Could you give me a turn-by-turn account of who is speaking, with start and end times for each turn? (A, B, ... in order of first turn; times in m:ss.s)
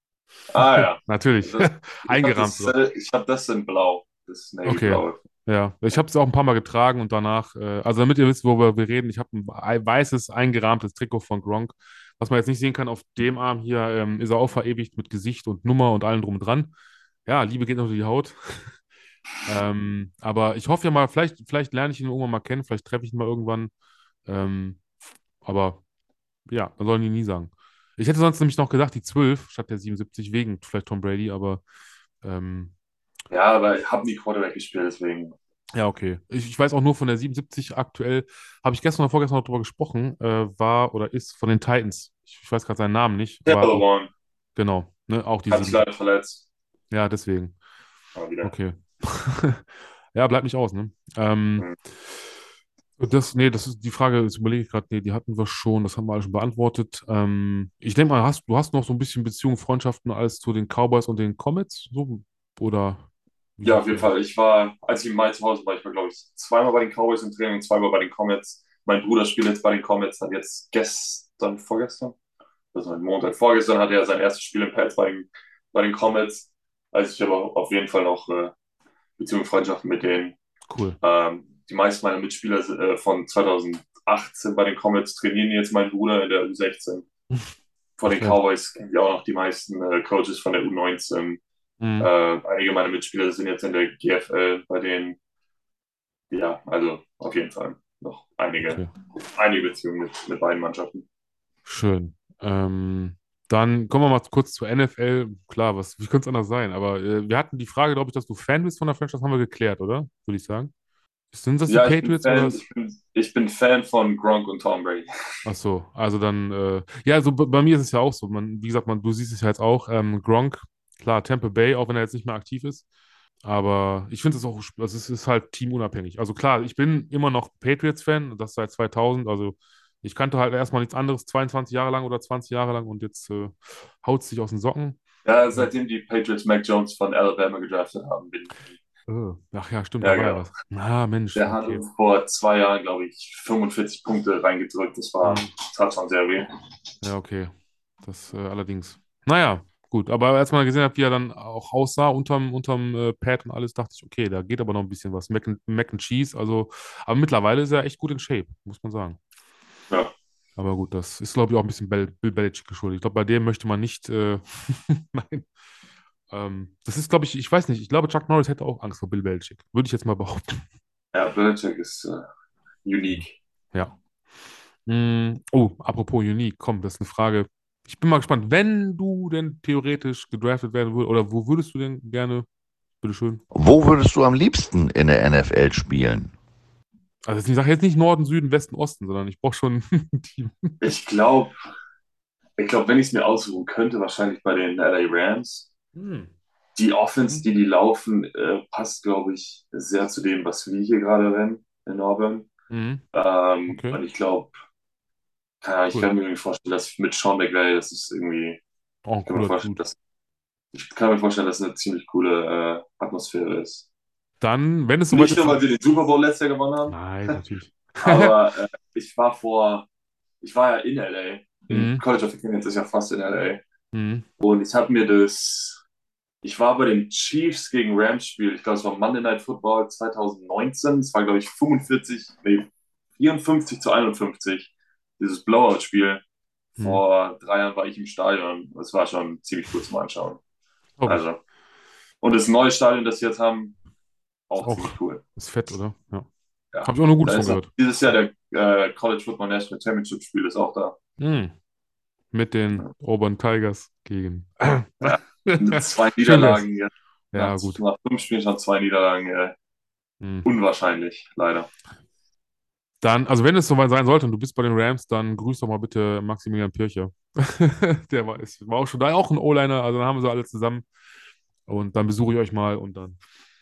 0:00.5-0:05.2 A
0:00.8-0:02.7 B
0:04.6-0:16.7 B
0:17.2-0:18.8 B
0:19.4-0:23.7 B
0:24.2-0:24.8 B
0:25.4-0:25.8 B
0:26.5-0:31.6 B
0:32.2-0:32.7 B
0:33.3-0:35.3 A
0:35.7-0:43.8 B
0:43.4-0:44.1 A
0:44.6-0:45.8 B
0:45.5-0:46.4 A
0:46.9-0:47.5 B
0:48.2-0:48.5 A
0:48.4-0:52.1 B
0:53.0-1:03.0 B
1:03.6-1:04.1 B
1:03.6-1:12.2 A
1:12.7-1:18.5 A
1:19.2-1:20.4 A
1:20.7-1:21.0 B
1:21.0-1:27.0 A
1:28.0-1:31.4 A
1:28.0-1:28.4 B
1:31.8-1:32.1 B
1:32.0-1:35.2 A
1:36.3-1:41.0 A
1:38.6-1:38.9 B
1:41.6-1:50.7 B
1:51.3-1:52.6 B
1:51.7-1:55.1 A
1:55.4-2:02.8 B
2:03.4-2:15.0 B
2:15.2-2:18.7 A
2:19.1-2:21.8 B
2:20.0-2:20.4 A
2:21.3-2:26.5 A
2:25.2-2:25.5 B
2:27.0-2:39.2 B
2:40.6-2:45.5 B
2:46.3-2:50.6 B
2:51.1-2:52.2 A
2:52.8-2:53.4 A
2:54.8-3:02.4 B
3:03.0-3:03.4 B
3:03.5-3:06.3 C
3:07.2-3:10.8 B
3:10.8-3:11.5 A
3:12.6-3:15.7 A
3:15.9-3:16.3 B
3:16.8-3:22.5 A
3:22.7-3:23.0 B
3:23.1-3:24.5 A
3:23.7-3:24.0 B
3:25.6-3:28.6 A
3:29.0-3:29.8 B
3:29.3-3:30.0 A
3:30.7-3:33.8 A
3:34.4-3:35.6 B
3:35.1-3:37.4 A
3:36.9-3:38.4 B
3:38.0-3:39.9 A
3:40.4-3:43.6 A
3:41.7-3:42.0 B
3:43.9-3:44.2 B
3:44.4-3:45.8 A
3:46.4-3:56.2 A
3:56.8-3:57.0 B
3:56.8-4:00.4 A
4:01.0-4:01.2 B
4:01.0-4:01.4 A
4:02.2-4:03.7 A
4:04.5-4:05.2 A
4:04.6-4:06.3 B
4:06.7-4:11.0 A
4:06.8-4:07.7 B
4:11.2-4:11.5 B
4:12.3-4:16.6 B
4:15.0-4:19.5 A
4:17.3-4:17.8 B
4:20.2-4:20.5 B
4:20.4-4:21.7 A
4:23.0-4:30.8 B
4:31.7-4:33.2 B